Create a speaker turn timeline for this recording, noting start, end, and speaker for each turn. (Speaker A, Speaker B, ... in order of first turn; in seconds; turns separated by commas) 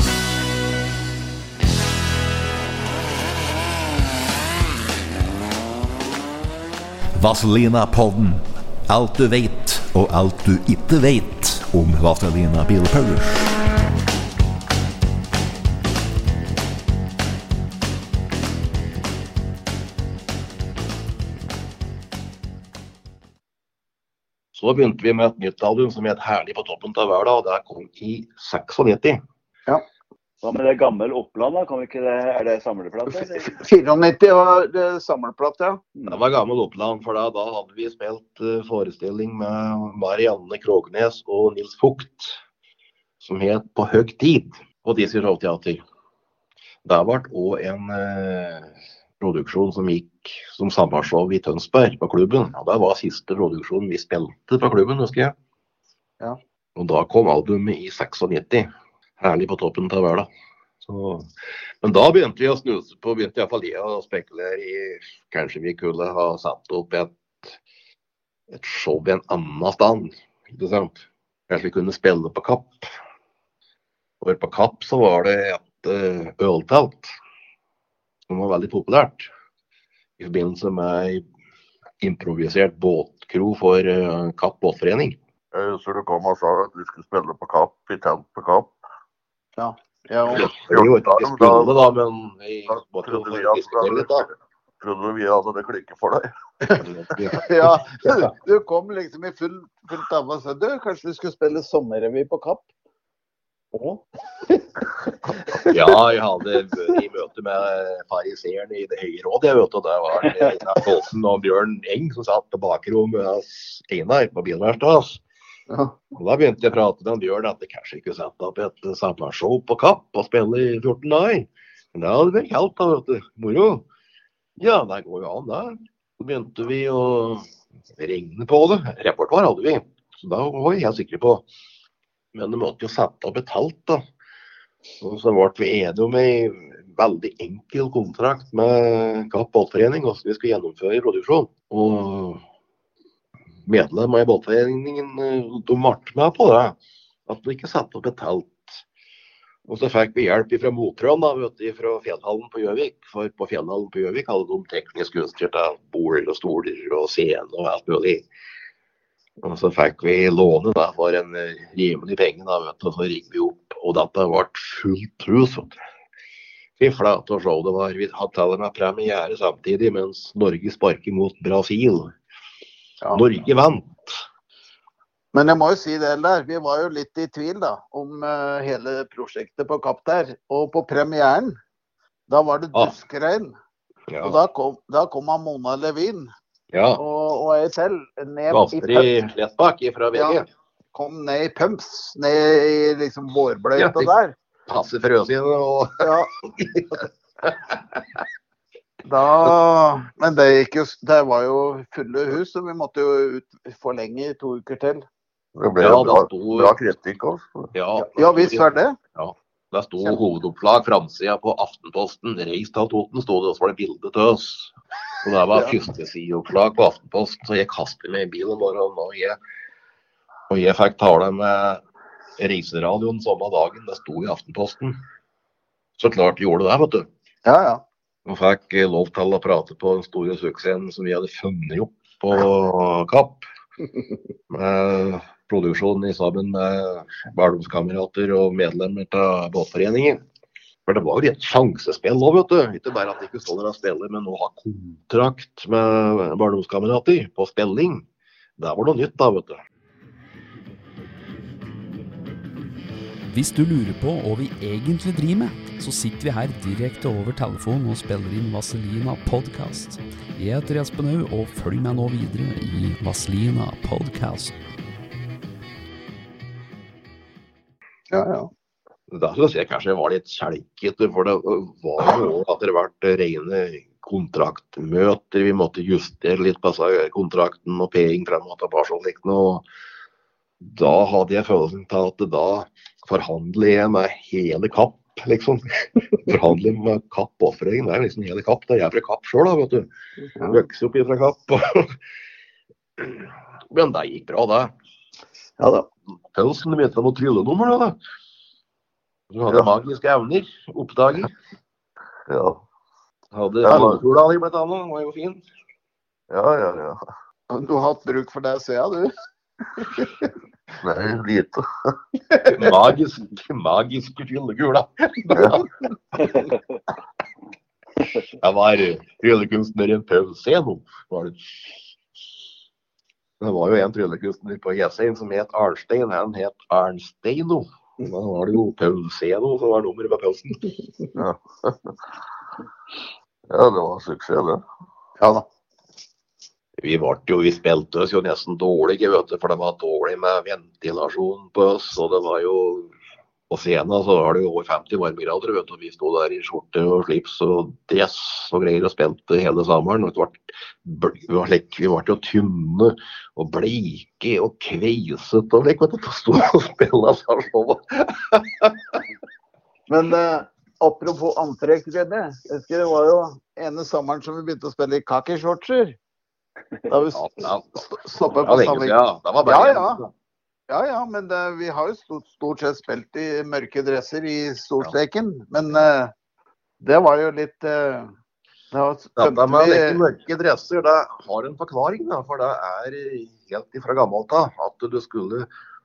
Speaker A: 7.2-13.5, Speaker B: 24.5-29.2, Speaker C: 30.4-33.5, Speaker D: 33.1-35.8, Speaker B: 36.1-42.4, Speaker B: 43.2-45.8, Speaker B: 46.8-55.3, Speaker B: 56.8-60.3, Speaker B: 60.9-61.2, Speaker B: 61.8-67.5, Speaker B: 68.5-72.7, Speaker B: 74.2-77.1, Speaker B: 78.3-79.3, Speaker B: 80.2-81.2, Speaker B: 82.0-85.2, Speaker E: 85.5-88.7, Speaker D: 89.6-90.5, Speaker B: 90.3-94.3, Speaker E: 90.6-91.8, Speaker E: 92.7-94.3, Speaker E: 94.8-96.3, Speaker B: 96.8-97.7, Speaker D: 97.3-102.7, Speaker D: 103.7-104.0, Speaker D: 105.5-105.7, Speaker B: 105.7-115.2, Speaker D: 115.7-115.9, Speaker B: 116.2-123.8, Speaker B: 124.6-127.4, Speaker B: 128.0-131.4, Speaker B: 132.3-134.0, Speaker B: 135.0-142.4, Speaker B: 143.7-148.8, Speaker B: 149.7-158.2, Speaker B: 159.4-165.7, Speaker B: 166.8-172.1, Speaker B: 173.1-174.2, Speaker D: 175.3-181.5, Speaker D: 182.3-183.5, Speaker B: 184.1-184.4, Speaker D: 184.2-186.3, Speaker B: 186.7-187.0, Speaker D: 186.9-189.1, Speaker B: 188.5-190.4, Speaker D: 190.1-190.4, Speaker D: 190.9-194.3, Speaker B: 193.8-194.1, Speaker B: 194.7-198.2, Speaker D: 196.0-196.3, Speaker D: 199.0-205.1, Speaker E: 205.6-207.7, Speaker B: 205.8-206.8, Speaker B: 207.7-219.4, Speaker D: 207.9-208.9, Speaker B: 220.5-221.8, Speaker B: 222.4-224.9, Speaker B: 226.0-227.1, Speaker D: 227.4-227.8, Speaker B: 228.2-233.4, Speaker B: 234.5-240.2, Speaker B: 240.9-248.0, Speaker B: 248.6-249.6, Speaker F: 253.3-264.5, Speaker D: 268.1-268.5, Speaker B: 269.1-279.6, Speaker B: 280.6-289.9, Speaker D: 290.4-290.6, Speaker B: 290.5-291.9, Speaker B: 293.0-294.7, Speaker D: 295.6-295.9, Speaker B: 296.3-298.0, Speaker B: 299.3-301.3, Speaker E: 302.3-302.6, Speaker B: 303.3-305.4, Speaker E: 303.6-304.0, Speaker E: 306.3-307.0, Speaker D: 307.5-309.1, Speaker D: 309.8-310.2, Speaker E: 310.8-311.6, Speaker B: 312.5-315.6, Speaker E: 315.3-315.6, Speaker B: 318.3-321.8, Speaker B: 323.4-330.7, Speaker E: 331.2-331.9, Speaker E: 333.5-334.6, Speaker D: 335.2-335.4, Speaker B: 336.8-342.9, Speaker B: 343.5-359.0, Speaker D: 359.9-366.0, Speaker D: 366.9-370.0, Speaker B: 367.1-370.1, Speaker D: 370.7-376.1, Speaker D: 376.8-378.1, Speaker D: 378.7-380.0, Speaker B: 379.2-385.5